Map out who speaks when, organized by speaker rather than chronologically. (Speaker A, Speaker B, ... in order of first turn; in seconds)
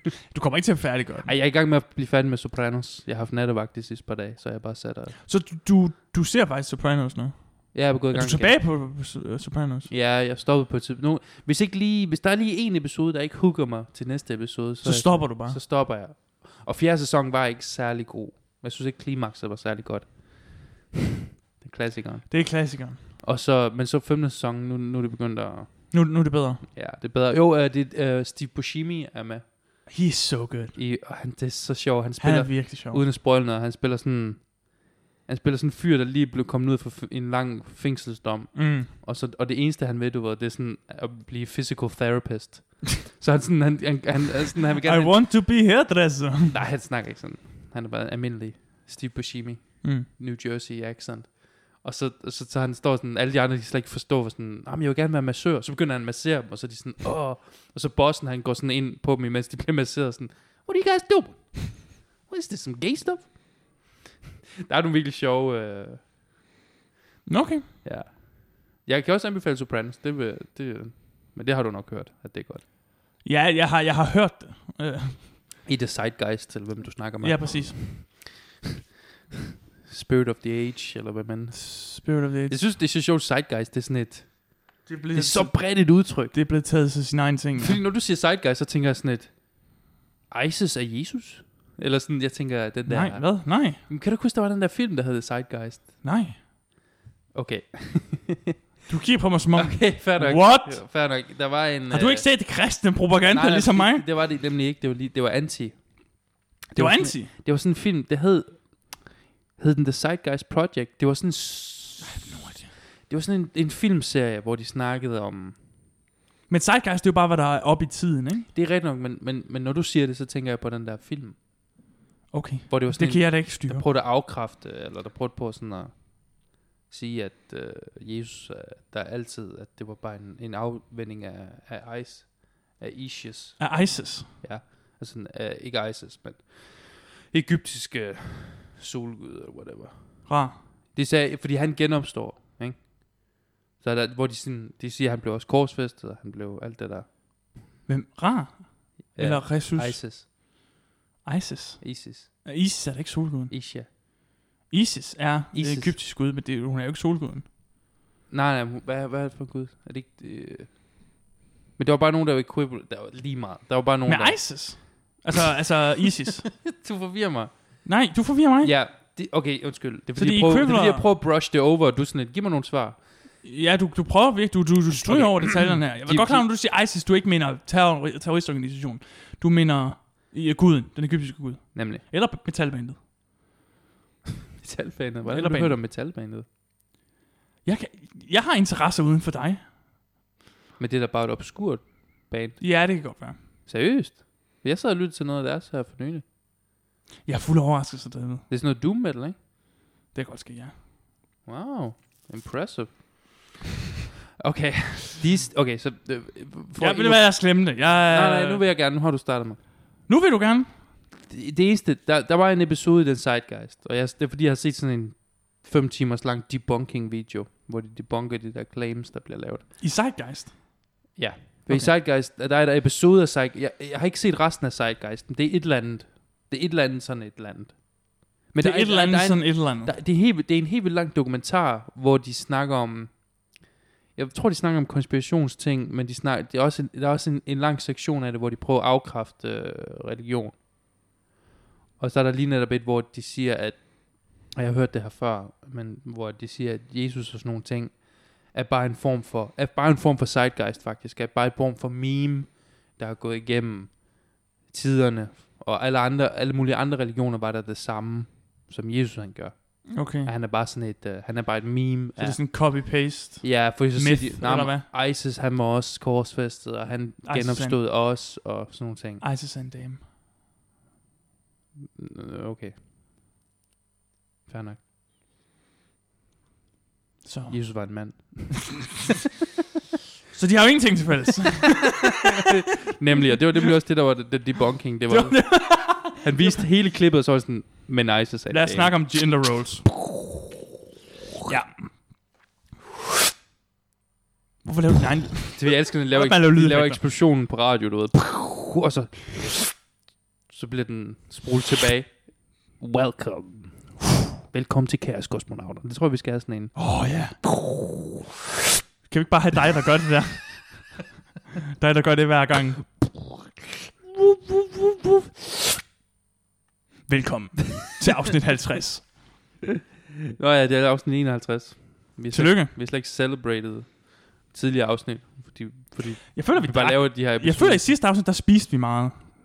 Speaker A: 0.3-1.3, 5.2-9.9, 14.8-15.6, 22.3-23.0, 25.9-26.6, 29.9-30.8, 32.2-33.0, 38.5-38.9, 44.8-46.6, 49.8-50.1, 67.2-67.7, 73.2-75.3, 77.2-78.1, 81.5-82.6, 84.8-87.8, 92.8-93.8, 96.0-96.4, 98.9-100.8, 101.9-104.0, 106.7-107.3, 112.0-112.7, 116.5-118.5, 122.3-123.8, 133.6-134.3, 140.2-140.6, 147.9-150.0, 151.2-153.5, 154.7-157.4, 164.1-166.5, 167.8-168.7, 170.2-171.1, 173.4-183.0, 185.2-185.8, 187.6-189.6, 192.6-193.4, 197.2-198.4, 200.1-200.8, 206.8-208.6, 210.1-210.8, 219.8-220.9, 221.7-221.9, 228.6-229.9, 259.9-260.3, 262.2-264.9, 267.2-267.8, 269.2-270.0, 277.2-278.1, 280.3-282.1, 285.1-286.6, 288.5-289.9, 291.4-291.7, 294.6-297.0, 306.8-307.4, 309.0-311.0, 311.8-313.1, 317.1-319.2, 322.3-322.7, 326.3-329.3
Speaker B: 1.2-5.2, 7.7-8.6, 9.9-20.9, 21.6-29.9, 30.7-45.2, 46.5-64.0, 64.6-66.1, 67.8-72.6, 75.6-78.3, 79.8-86.3, 87.6-89.8, 90.3-96.0, 97.3-98.5, 99.5-102.4, 103.3-115.6, 118.5-121.4, 122.7-147.1, 149.1-150.3, 151.8-152.3, 153.5-153.9, 155.5-155.9, 158.3-161.1, 161.8-165.2, 166.6-167.9, 168.6-173.0, 174.9-176.4, 181.7-182.0, 184.6-186.4, 190.8-196.2, 198.5-199.3, 201.4-203.5, 204.4-209.6, 211.2-219.7, 221.2-233.6, 234.1-240.6, 242.0-269.2, 271.9-272.8, 274.5-274.8, 277.5-278.9, 282.4-289.3, 295.5-299.9, 300.5-307.9, 320.4-327.9